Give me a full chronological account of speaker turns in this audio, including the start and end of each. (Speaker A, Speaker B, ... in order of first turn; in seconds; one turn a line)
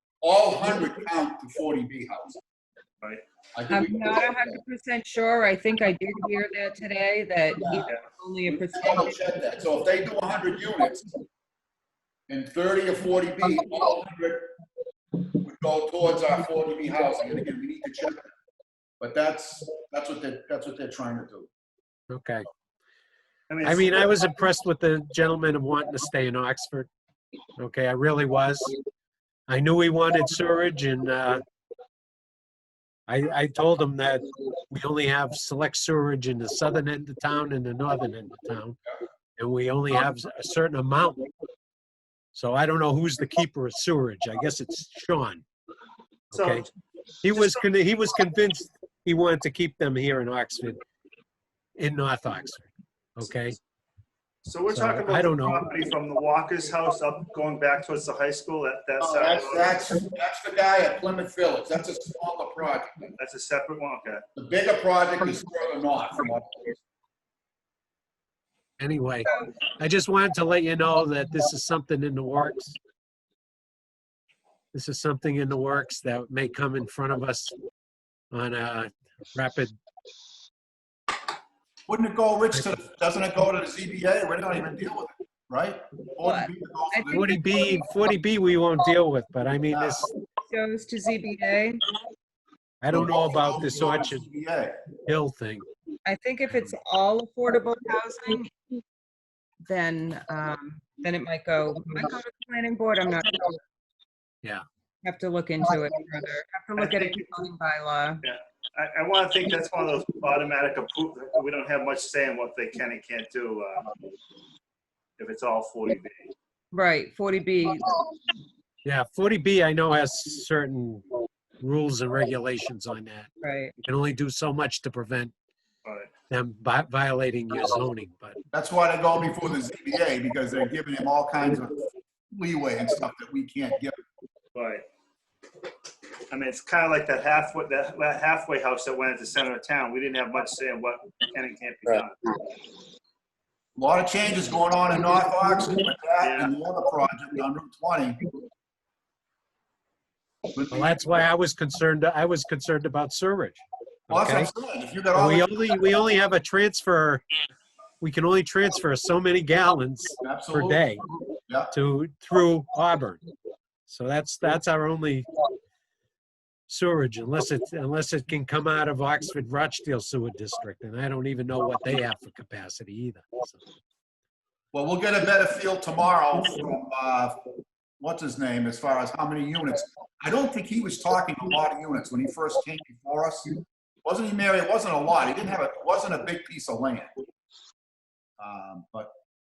Speaker A: 0.2-2.4
Speaker A: 3.5-4.5
Speaker B: 3.7-9.1
Speaker A: 7.6-7.8
Speaker A: 8.5-11.1
Speaker A: 12.3-14.5
Speaker A: 15.3-18.3
Speaker A: 19.0-21.5
Speaker C: 22.1-22.4
Speaker D: 23.5-24.0
Speaker C: 23.6-26.9
Speaker C: 27.6-28.7
Speaker C: 29.5-31.4
Speaker C: 33.1-38.8
Speaker C: 39.4-41.2
Speaker C: 42.3-45.4
Speaker D: 46.3-46.6
Speaker C: 46.3-46.7
Speaker C: 47.2-50.8
Speaker D: 47.3-47.6
Speaker C: 51.8-53.6
Speaker D: 54.4-59.8
Speaker C: 54.7-55.6
Speaker A: 59.0-63.1
Speaker D: 63.2-64.2
Speaker A: 64.3-66.8
Speaker C: 68.8-72.8
Speaker B: 69.2-69.5
Speaker C: 74.7-77.5
Speaker C: 78.3-79.8
Speaker A: 81.9-87.4
Speaker C: 82.5-82.8
Speaker B: 86.2-87.6
Speaker C: 87.1-90.1
Speaker A: 89.7-90.1
Speaker B: 90.5-91.8
Speaker C: 92.8-94.2
Speaker A: 92.9-94.8
Speaker C: 95.0-95.7
Speaker B: 96.0-98.5
Speaker B: 99.6-103.6
Speaker B: 105.0-108.2
Speaker D: 106.8-107.3
Speaker D: 108.2-113.9
Speaker D: 115.2-116.3
Speaker B: 116.7-117.9
Speaker C: 118.8-121.0
Speaker C: 121.6-123.3
Speaker B: 123.4-123.7
Speaker C: 123.8-125.3
Speaker D: 125.8-126.1
Speaker C: 126.3-128.4
Speaker A: 128.5-133.9
Speaker D: 134.5-134.8
Speaker D: 136.3-142.3
Speaker A: 143.8-148.2
Speaker D: 146.2-146.5
Speaker A: 150.5-151.2
Speaker C: 150.7-154.5
Speaker A: 154.1-155.5
Speaker C: 155.1-157.2
Speaker C: 158.0-161.0
Speaker A: 160.2-160.8
Speaker C: 161.7-163.2
Speaker C: 163.9-165.3
Speaker C: 166.7-173.6
Speaker A: 174.7-177.4
Speaker A: 178.0-187.1
Speaker A: 188.4-189.1